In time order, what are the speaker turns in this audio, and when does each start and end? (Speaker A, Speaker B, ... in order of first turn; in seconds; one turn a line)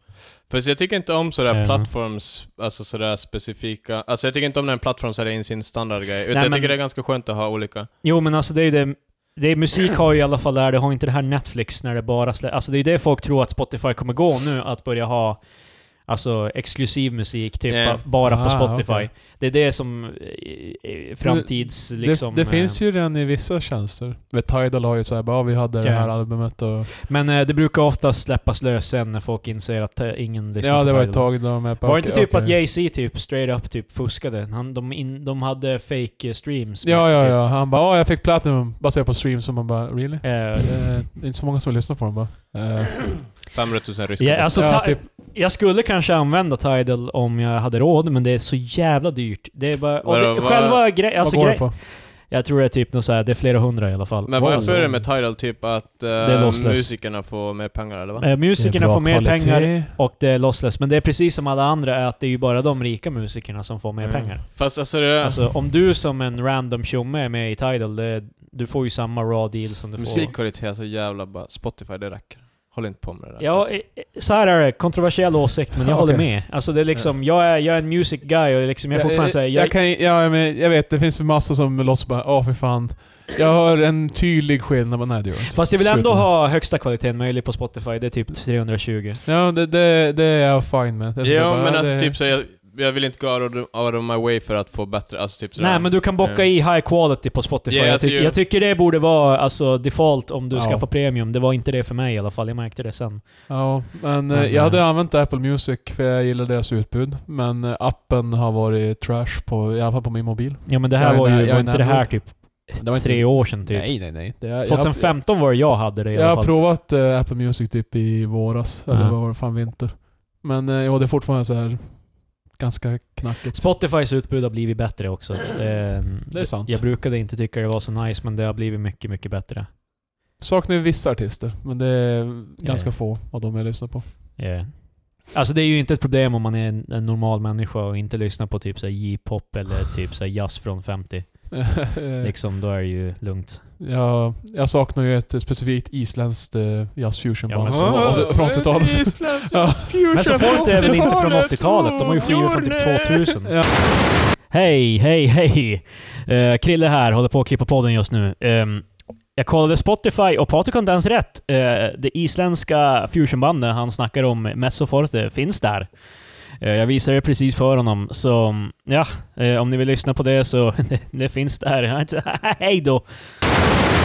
Speaker A: 0.5-7.9
Speaker B: 1.5-1.9
Speaker B: 6.3-6.7
Speaker B: 8.0-22.8
Speaker A: 17.7-18.0
Speaker C: 18.2-19.1
Speaker C: 21.2-26.9
Speaker B: 25.8-37.4
Speaker C: 30.6-32.6
Speaker C: 36.8-43.3
Speaker B: 40.2-41.0
Speaker A: 43.5-44.8
Speaker B: 44.2-55.0
Speaker C: 44.5-45.0
Speaker A: 50.0-50.9
Speaker C: 51.2-51.7
Speaker A: 54.3-58.3
Speaker C: 54.4-55.1
Speaker B: 56.2-56.9
Speaker B: 58.2-70.3
Speaker C: 58.5-59.9
Speaker A: 64.0-65.5
Speaker A: 70.0-73.8
Speaker B: 73.4-79.8
Speaker C: 75.8-76.3
Speaker C: 78.9-86.3
Speaker B: 85.5-89.2
Speaker C: 89.2-92.2
Speaker A: 91.2-96.5
Speaker B: 95.6-104.8
Speaker A: 97.7-98.4
Speaker C: 100.5-100.9
Speaker C: 103.5-123.7
Speaker B: 110.7-116.5
Speaker B: 118.9-119.2
Speaker B: 123.5-129.7
Speaker C: 126.3-126.8
Speaker C: 130.4-134.4
Speaker B: 132.6-133.0
Speaker B: 134.4-143.6
Speaker C: 141.5-142.3
Speaker C: 143.8-150.4
Speaker B: 147.5-148.4
Speaker A: 147.6-153.3
Speaker B: 150.1-173.3
Speaker C: 153.4-153.8